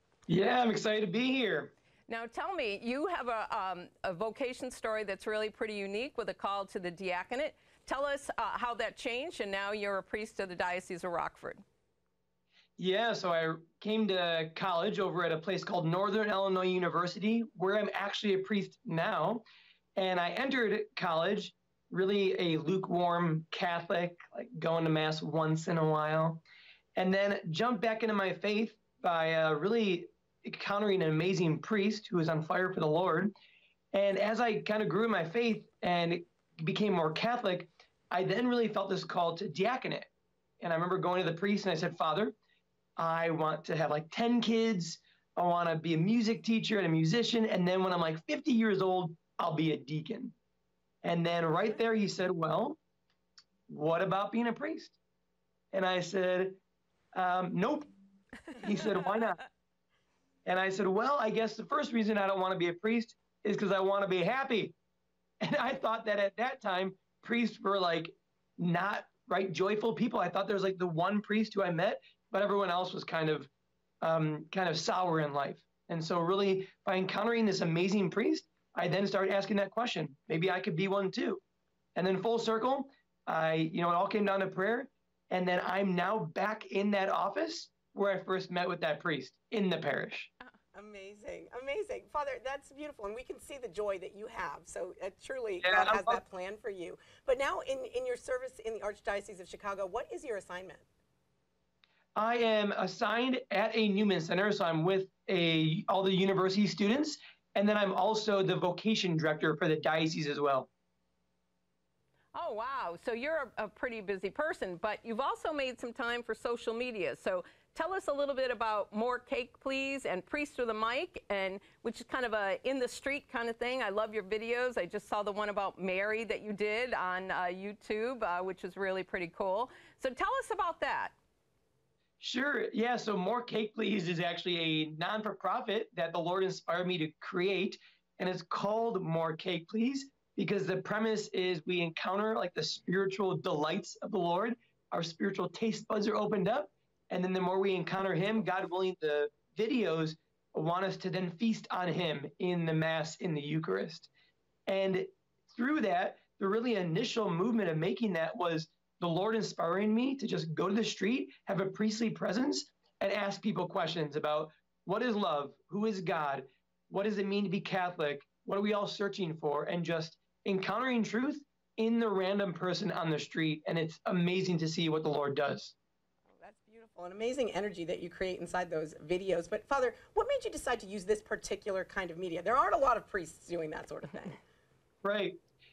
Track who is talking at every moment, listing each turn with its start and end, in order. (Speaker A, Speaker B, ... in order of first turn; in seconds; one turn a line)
Speaker A: 0.3-1.7
Speaker B: 2.1-11.6
Speaker A: 12.8-19.4
Speaker A: 19.9-26.4
Speaker A: 26.9-33.3
Speaker A: 33.9-40.1
Speaker A: 40.6-42.3
Speaker A: 43.0-50.3
Speaker A: 51.0-52.8
Speaker A: 53.7-55.0
Speaker A: 55.7-56.6
Speaker A: 57.1-57.9
Speaker A: 58.6-59.4
Speaker A: 60.4-64.8
Speaker A: 65.4-73.5
Speaker A: 74.0-81.4
Speaker A: 81.9-90.3
Speaker C: 90.7-100.8
Speaker A: 95.6-96.2
Speaker A: 102.2-110.7
Speaker B: 112.3-131.2
Speaker A: 132.2-154.1
Speaker A: 154.7-175.7
Speaker C: 176.3-184.4
Speaker A: 185.0-185.4